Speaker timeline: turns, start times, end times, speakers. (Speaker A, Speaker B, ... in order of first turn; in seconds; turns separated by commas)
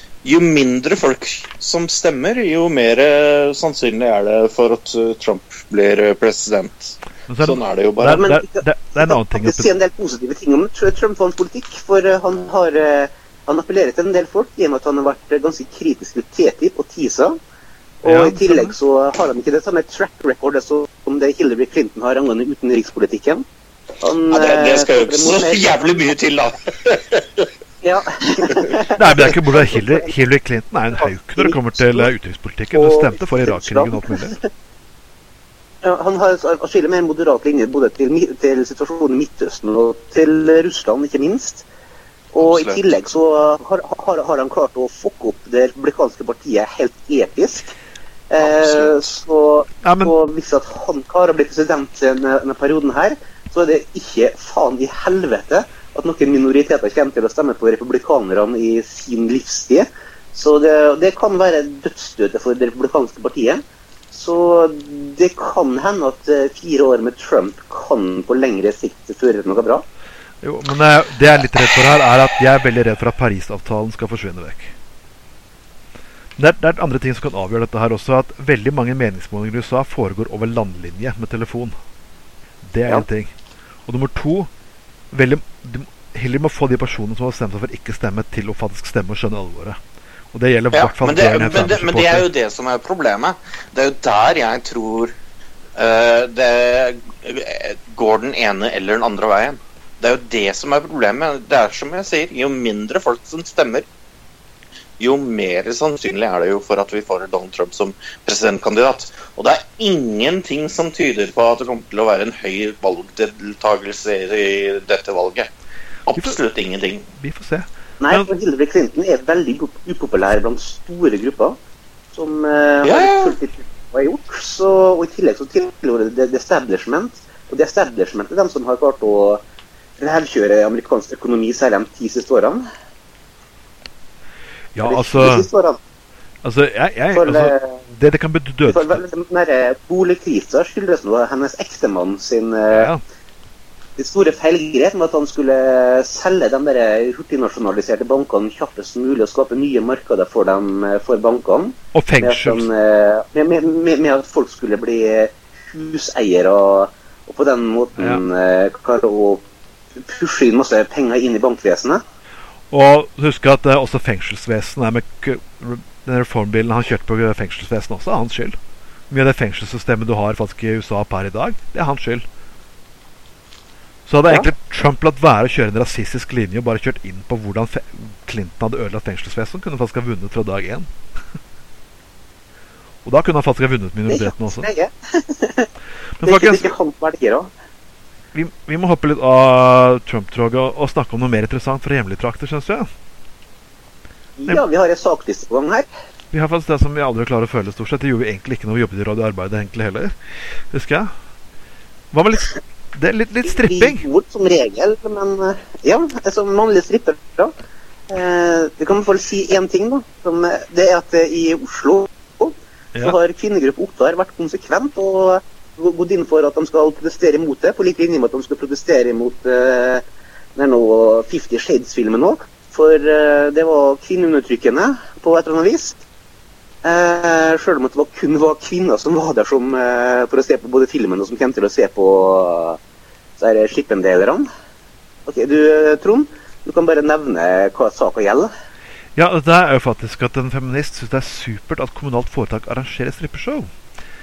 Speaker A: 0.2-8.2, Speaker B: 7.3-9.7, Speaker C: 8.1-17.4, Speaker C: 18.0-23.4, Speaker B: 18.1-18.8, Speaker C: 24.0-25.8, Speaker A: 24.3-27.5, Speaker C: 27.8-30.1, Speaker B: 28.9-34.4, Speaker C: 31.0-32.1, Speaker C: 32.7-34.5, Speaker C: 35.8-41.6, Speaker C: 42.3-47.7, Speaker A: 42.4-42.8, Speaker C: 48.3-69.8, Speaker A: 48.4-49.1, Speaker B: 49.8-50.1, Speaker B: 70.4-74.7, Speaker B: 76.4-81.8, Speaker B: 82.6-83.3, Speaker B: 83.9-84.5, Speaker B: 85.1-89.8, Speaker B: 90.3-92.3, Speaker A: 90.7-95.1, Speaker A: 95.8-103.9, Speaker A: 105.0-115.5, Speaker A: 116.1-117.1, Speaker B: 117.1-118.3, Speaker C: 118.0-121.6, Speaker C: 122.1-129.4, Speaker A: 122.8-123.4, Speaker C: 130.0-132.7, Speaker B: 134.8-135.5, Speaker C: 134.8-135.8, Speaker B: 136.4-139.0, Speaker C: 137.1-137.8, Speaker C: 138.7-142.9, Speaker B: 142.7-143.0, Speaker C: 144.0-159.4, Speaker B: 151.9-152.7, Speaker B: 158.0-158.2, Speaker C: 160.0-162.0, Speaker B: 162.7-168.6, Speaker B: 169.1-172.2, Speaker B: 174.1-180.9, Speaker B: 183.1-184.7, Speaker C: 184.1-185.7, Speaker B: 186.2-186.7, Speaker C: 186.2-187.5, Speaker B: 188.3-192.9, Speaker C: 194.4-195.9, Speaker B: 196.3-200.1, Speaker B: 200.7-201.1, Speaker B: 202.1-204.0, Speaker C: 203.5-207.5, Speaker C: 208.1-220.0, Speaker C: 220.6-226.0, Speaker C: 226.8-232.8, Speaker C: 233.4-234.5, Speaker C: 235.3-238.5, Speaker B: 239.2-243.7